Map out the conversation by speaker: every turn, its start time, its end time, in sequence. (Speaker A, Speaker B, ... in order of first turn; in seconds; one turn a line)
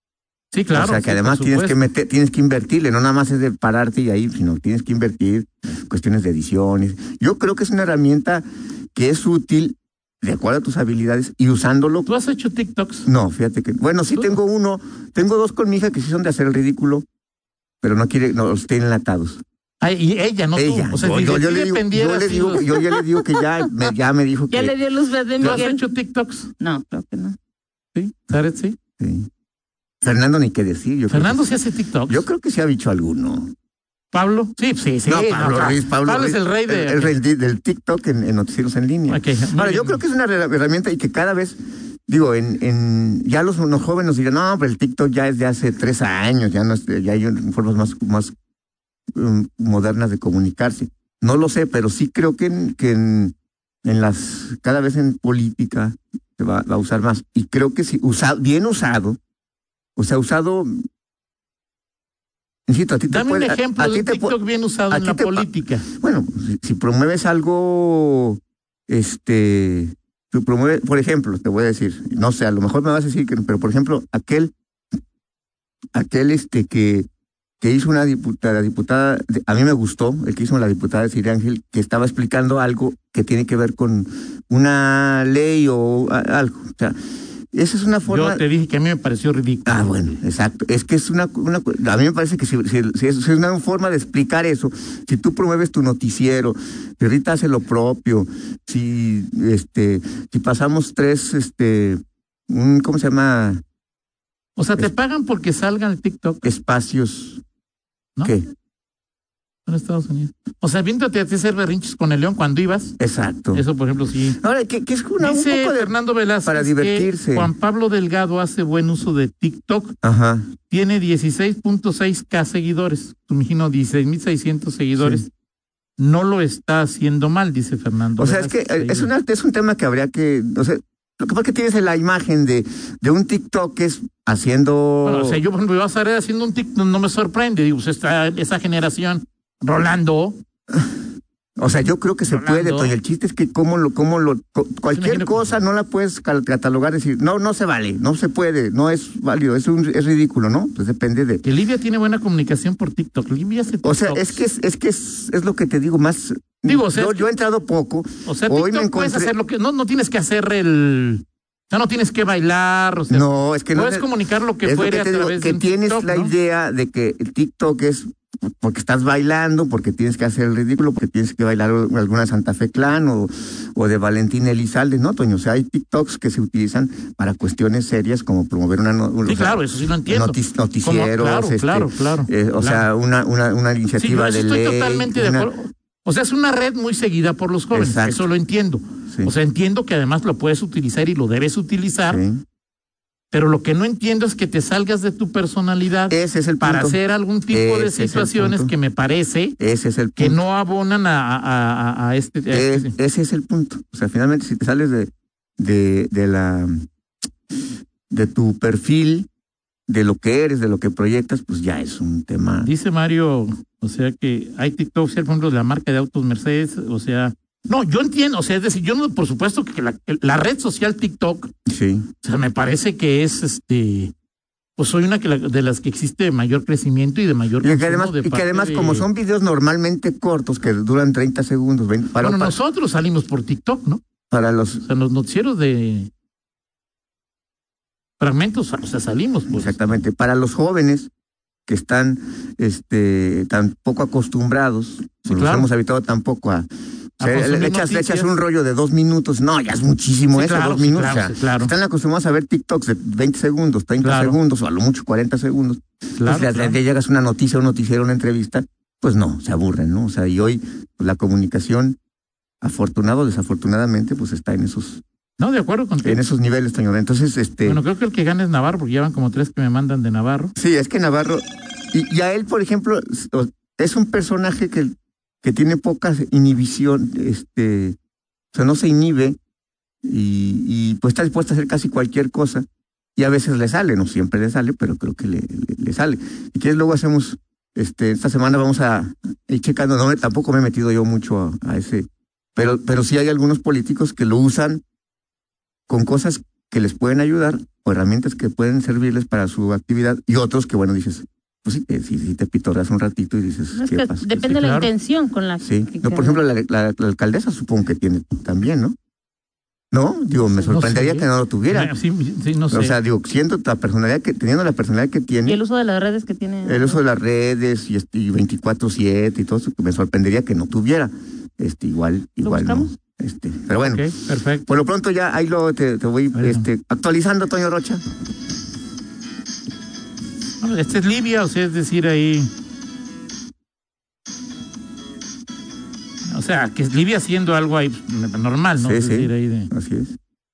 Speaker A: 0.5-1.8
Speaker B: 0.7-12.1
Speaker A: 12.1-13.1
Speaker B: 13.1-17.0
Speaker B: 17.8-19.4
Speaker A: 19.8-22.7
Speaker B: 20.5-24.7
Speaker C: 24.5-25.8
Speaker B: 25.4-25.6
Speaker A: 25.4-26.5
Speaker C: 26.6-27.4
Speaker A: 27.9-28.8
Speaker B: 29.0-29.3
Speaker B: 30.0-31.5
Speaker A: 31.1-32.2
Speaker B: 32.1-33.5
Speaker A: 34.1-37.1
Speaker B: 35.0-41.5
Speaker A: 39.1-40.0
Speaker B: 42.1-48.3
Speaker B: 49.1-53.3
Speaker B: 53.8-59.2
Speaker B: 60.0-60.7
Speaker B: 62.7-64.4
Speaker A: 63.1-65.8
Speaker B: 64.9-74.5
Speaker B: 75.9-77.1
Speaker B: 77.6-87.0
Speaker B: 87.5-88.4
Speaker A: 88.1-90.1
Speaker B: 89.7-103.6
Speaker A: 104.5-106.4
Speaker B: 106.4-107.4
Speaker A: 109.7-113.0
Speaker B: 113.0-113.7
Speaker A: 113.5-114.4
Speaker B: 114.3-117.5
Speaker A: 115.2-120.0
Speaker B: 120.0-120.5
Speaker A: 120.7-125.3
Speaker B: 125.0-125.2
Speaker A: 126.0-129.1
Speaker B: 128.2-135.4
Speaker A: 135.0-140.4
Speaker B: 141.6-151.4
Speaker A: 142.3-142.9
Speaker A: 144.9-145.5
Speaker A: 151.4-154.4
Speaker B: 153.8-159.3
Speaker A: 156.6-157.3
Speaker A: 158.2-166.3
Speaker B: 163.1-185.5
Speaker A: 179.2-182.9
Speaker A: 184.0-192.2
Speaker B: 187.7-188.2
Speaker B: 192.1-192.4
Speaker A: 193.3-199.6
Speaker B: 196.1-198.7
Speaker B: 199.6-200.4
Speaker A: 200.2-202.9
Speaker B: 202.5-206.8
Speaker B: 208.1-209.3
Speaker B: 209.9-212.7
Speaker A: 212.6-221.5
Speaker B: 221.7-222.1
Speaker A: 222.2-224.1
Speaker A: 224.8-229.1
Speaker B: 227.6-232.5
Speaker A: 232.2-234.0
Speaker B: 234.3-234.8
Speaker A: 234.8-236.1
Speaker A: 238.2-240.0
Speaker B: 239.5-241.1
Speaker B: 241.7-246.7
Speaker A: 245.3-245.7
Speaker A: 247.2-248.3
Speaker B: 247.2-262.0
Speaker A: 250.3-251.7
Speaker A: 254.0-254.4
Speaker A: 256.2-256.8
Speaker B: 262.6-265.0
Speaker A: 265.4-266.3
Speaker B: 266.0-267.8
Speaker A: 267.6-270.5
Speaker B: 270.6-277.9
Speaker B: 278.5-279.4
Speaker B: 280.0-294.8
Speaker B: 295.9-304.4
Speaker C: 303.8-306.4
Speaker A: 304.4-304.9
Speaker B: 305.6-308.9
Speaker B: 309.9-311.9
Speaker A: 310.7-313.0
Speaker B: 312.7-315.6
Speaker C: 315.5-317.0
Speaker B: 316.6-328.0
Speaker C: 322.4-322.9
Speaker A: 323.8-324.7
Speaker A: 326.3-326.6
Speaker A: 330.6-332.5
Speaker A: 336.3-339.7
Speaker B: 338.8-340.2